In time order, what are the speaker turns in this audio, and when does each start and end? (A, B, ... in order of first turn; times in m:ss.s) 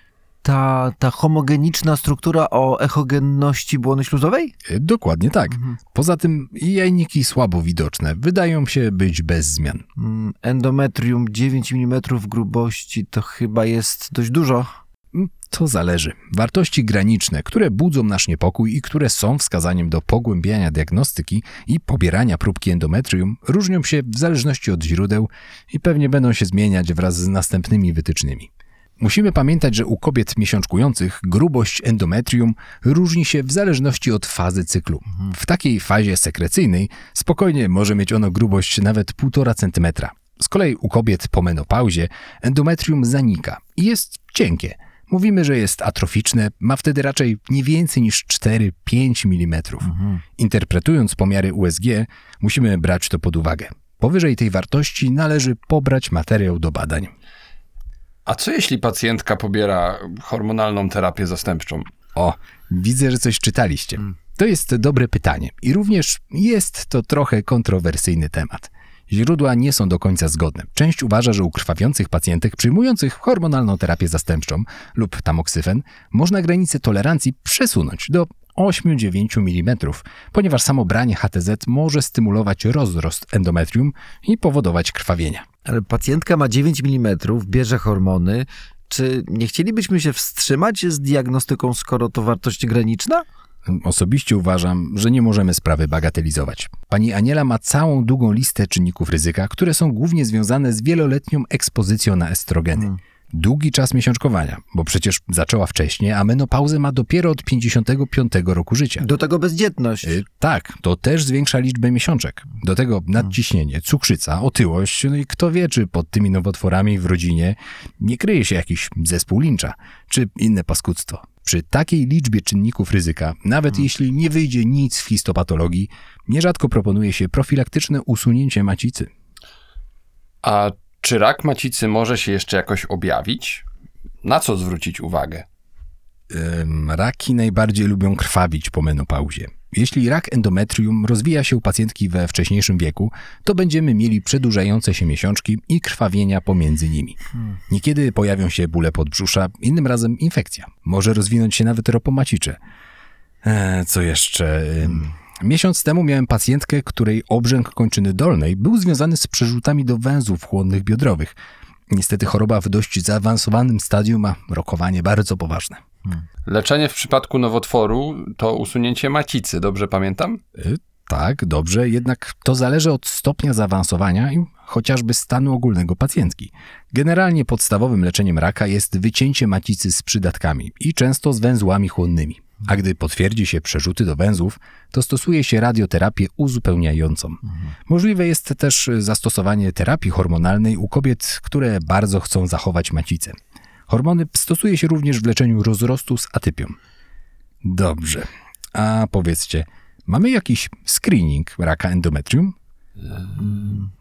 0:00.4-0:04.5 A
0:04.7-0:09.8 B
0:10.0-0:14.7 A
0:15.1-0:57.1 B
0:49.9-0:50.2 A
0:58.3-1:01.9 C
1:02.2-1:25.4 B
1:25.7-1:33.2 A
1:33.6-1:49.1 B
1:49.0-1:50.2 A
1:50.0-2:09.1 B
2:10.4-2:13.6 C
2:14.2-2:15.5 C
2:16.3-2:27.2 B
2:27.7-2:32.6 B
2:33.4-2:41.4 B
2:41.9-2:45.8 B
2:46.5-2:50.4 C
2:50.6-3:13.3 B
3:13.9-3:16.8 B
3:17.6-3:22.6 B
3:23.2-3:23.8 C
3:23.4-3:23.9 A